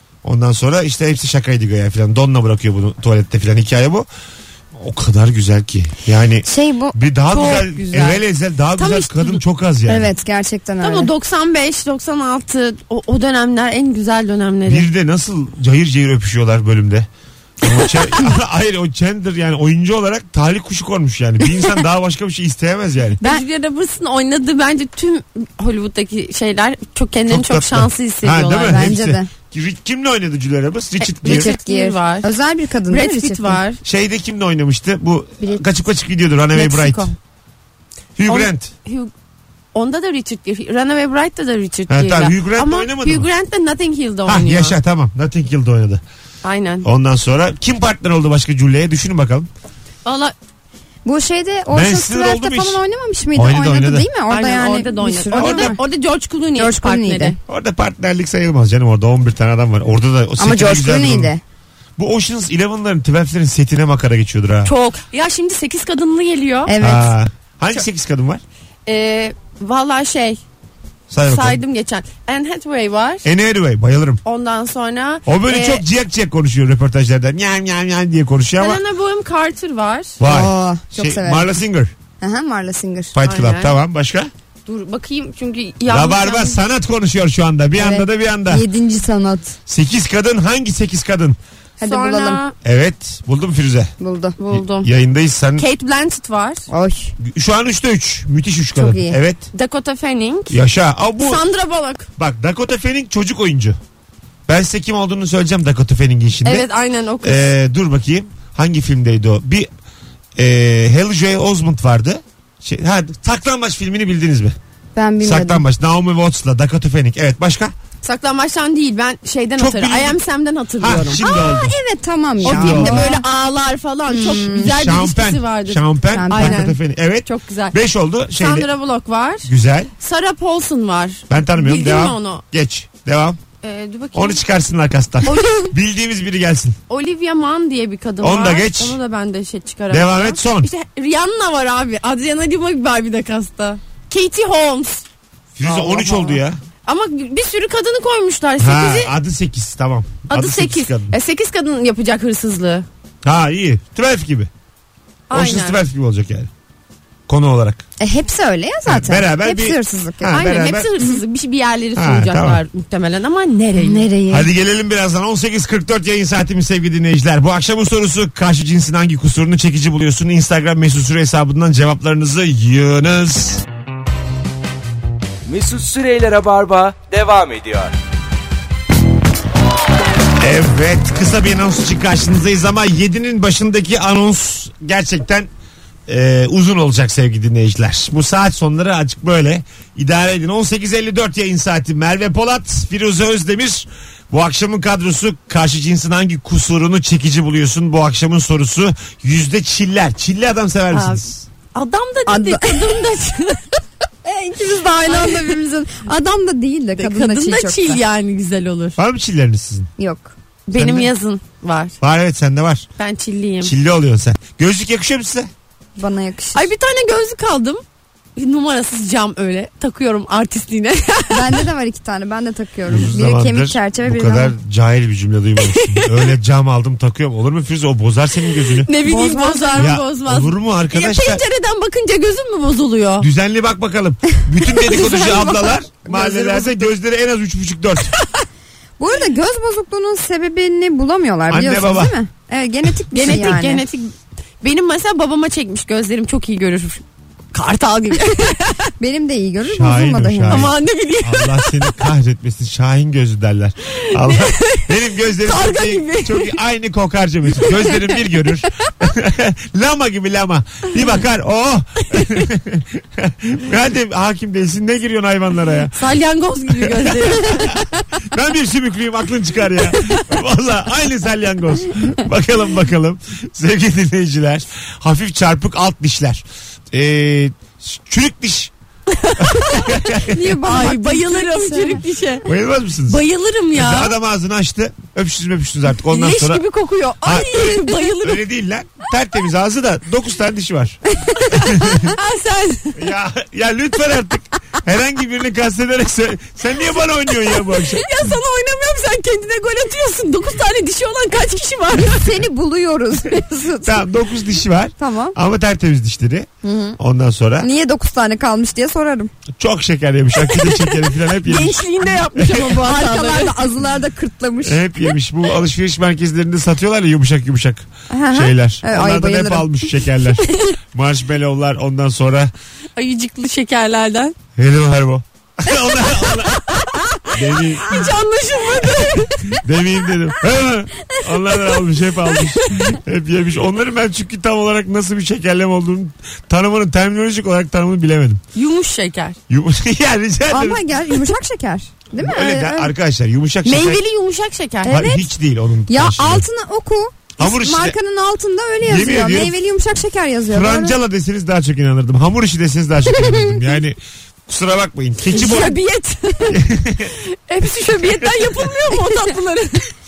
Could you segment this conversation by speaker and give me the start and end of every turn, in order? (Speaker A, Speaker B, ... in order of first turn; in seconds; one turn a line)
Speaker A: 0.2-4.1
Speaker A: 4.8-10.1
Speaker B: 6.5-8.2
Speaker C: 8.8-9.4
Speaker B: 9.9-11.1
Speaker C: 10.8-14.9
Speaker A: 14.7-17.1
Speaker A: 17.6-23.2
Speaker C: 23.2-28.8
Speaker A: 27.3-31.5
Speaker B: 28.6-29.3
Speaker C: 31.0-32.3
Speaker B: 31.2-33.6
Speaker C: 32.9-33.8
Speaker A: 33.8-37.1
Speaker C: 36.5-37.2
Speaker A: 38.2-38.7
Speaker C: 38.3-39.1
Speaker C: 39.7-44.8
Speaker A: 41.9-43.3
Speaker A: 44.3-46.0
Speaker C: 46.4-46.9
Speaker A: 46.8-49.5
Speaker C: 50.0-50.3
Speaker B: 51.0-55.8
Speaker A: 51.7-52.8
Speaker A: 53.4-54.1
Speaker C: 54.3-57.4
Speaker A: 55.3-55.8
Speaker B: 56.6-57.4
Speaker A: 57.5-61.3
Speaker B: 60.4-61.4
Speaker A: 62.0-64.7
Speaker C: 64.7-66.7
Speaker B: 66.7-67.1
Speaker A: 66.8-68.4
Speaker C: 68.9-70.4
Speaker A: 71.1-71.6
Speaker C: 71.3-73.3
Speaker A: 73.2-74.2
Speaker C: 74.2-75.8
Speaker A: 75.3-78.8
Speaker C: 78.6-80.2
Speaker A: 80.2-81.9
Speaker B: 80.2-81.5
Speaker B: 82.2-83.1
Speaker A: 83.1-84.3
Speaker C: 83.2-83.8
Speaker C: 84.7-86.6
Speaker A: 85.9-88.7
Speaker B: 87.8-89.6
Speaker A: 89.7-91.4
Speaker B: 91.8-92.4
Speaker C: 91.8-92.5
Speaker A: 92.6-93.9
Speaker B: 94.0-94.4
Speaker C: 94.4-94.9
Speaker A: 94.5-95.7
Speaker C: 95.6-96.7
Speaker B: 96.7-97.1
Speaker A: 97.2-99.5
Speaker B: 98.8-99.2
Speaker C: 99.5-100.6
Speaker A: 100.5-101.4
Speaker C: 101.2-102.1
Speaker A: 102.2-103.8
Speaker A: 104.5-106.7
Speaker C: 106.5-107.4
Speaker A: 107.2-109.7
Speaker A: 110.4-114.6
Speaker B: 115.0-115.6
Speaker A: 115.2-117.7
Speaker C: 118.0-121.2
Speaker A: 119.6-120.2
Speaker A: 120.8-121.7
Speaker B: 121.2-123.2
Speaker A: 122.4-123.1
Speaker C: 122.4-127.8
Speaker B: 124.1-124.7
Speaker A: 124.3-128.7
Speaker B: 126.1-126.6
Speaker C: 128.4-132.4
Speaker A: 129.4-129.9
Speaker A: 131.3-133.4
Speaker C: 133.6-134.4
Speaker A: 134.2-136.8
Speaker C: 135.2-135.7
Speaker C: 136.9-145.0
Speaker A: 138.2-139.0
Speaker A: 139.9-140.7
Speaker A: 145.6-146.6
Speaker C: 145.6-149.1
Speaker A: 148.6-151.2
Speaker C: 150.3-152.9
Speaker A: 153.2-154.5
Speaker C: 155.3-155.8
Speaker A: 155.3-156.5
Speaker A: 157.3-157.8
Speaker B: 158.0-160.4
Speaker A: 158.9-160.9
Speaker C: 160.3-164.1
Speaker A: 161.9-162.6
Speaker B: 163.8-164.5
Speaker A: 164.3-173.6
Speaker D: 175.5-177.9
Speaker A: 180.4-185.5
Speaker A: 186.1-201.4
Speaker C: 200.9-203.6
Speaker B: 202.3-202.9
Speaker B: 204.2-208.0
Speaker C: 205.0-205.6
Speaker C: 207.0-209.0
Speaker A: 209.0-209.9
Speaker B: 210.0-210.3
Speaker C: 210.7-211.9
Speaker A: 210.7-211.1
Speaker A: 212.0-212.9
Speaker C: 213.0-213.7
Speaker A: 213.6-215.5
Speaker B: 216.0-216.7
Speaker C: 216.5-217.8
Speaker C: 218.4-221.7
Speaker B: 221.3-224.5
Speaker A: 222.9-228.9
Speaker C: 225.6-226.3
Speaker C: 228.8-233.3
Speaker B: 229.0-229.9
Speaker A: 229.8-231.4
Speaker A: 233.2-238.1
Speaker B: 234.9-236.7
Speaker C: 235.1-235.4
Speaker C: 236.1-236.7
Speaker B: 239.0-243.8
Speaker A: 241.5-242.2
Speaker C: 243.1-247.0
Speaker C: 247.5-248.9
Speaker B: 249.0-250.8
Speaker A: 249.6-266.1
Speaker C: 250.5-252.1
Speaker C: 254.0-256.6
Speaker C: 257.6-258.4
Speaker C: 262.1-262.5
Speaker C: 266.0-267.8
Speaker A: 266.7-278.7
Speaker C: 279.1-282.5
Speaker A: 279.4-280.6
Speaker B: 280.1-282.0
Speaker A: 282.4-283.2
Speaker C: 283.1-284.1
Speaker A: 283.8-286.6
Speaker C: 286.1-288.4
Speaker A: 287.2-291.0
Speaker C: 291.3-293.1
Speaker A: 291.5-292.2
Speaker A: 293.0-298.3
Speaker C: 297.5-302.4
Speaker B: 302.0-304.1
Speaker A: 303.8-307.7
Speaker B: 305.0-305.4
Speaker B: 306.6-307.0
Speaker B: 307.6-309.3
Speaker A: 309.6-312.6
Speaker C: 310.5-313.6
Speaker B: 312.7-314.9
Speaker A: 314.6-322.5
Speaker B: 318.1-320.0
Speaker C: 323.0-324.4
Speaker A: 324.6-326.7
Speaker A: 327.3-328.1
Speaker C: 327.8-329.6
Speaker A: 329.6-338.4
Speaker C: 338.5-339.4
Speaker A: 339.5-340.8
Speaker B: 340.5-342.9
Speaker A: 342.2-344.0
Speaker C: 343.6-345.0
Speaker B: 344.8-345.3
Speaker A: 344.9-346.4
Speaker B: 345.9-351.0
Speaker A: 347.4-347.9
Speaker A: 348.9-349.6
Speaker A: 350.5-355.8
Speaker C: 355.3-356.7
Speaker A: 356.5-357.1
Speaker C: 357.2-359.9
Speaker A: 358.2-358.7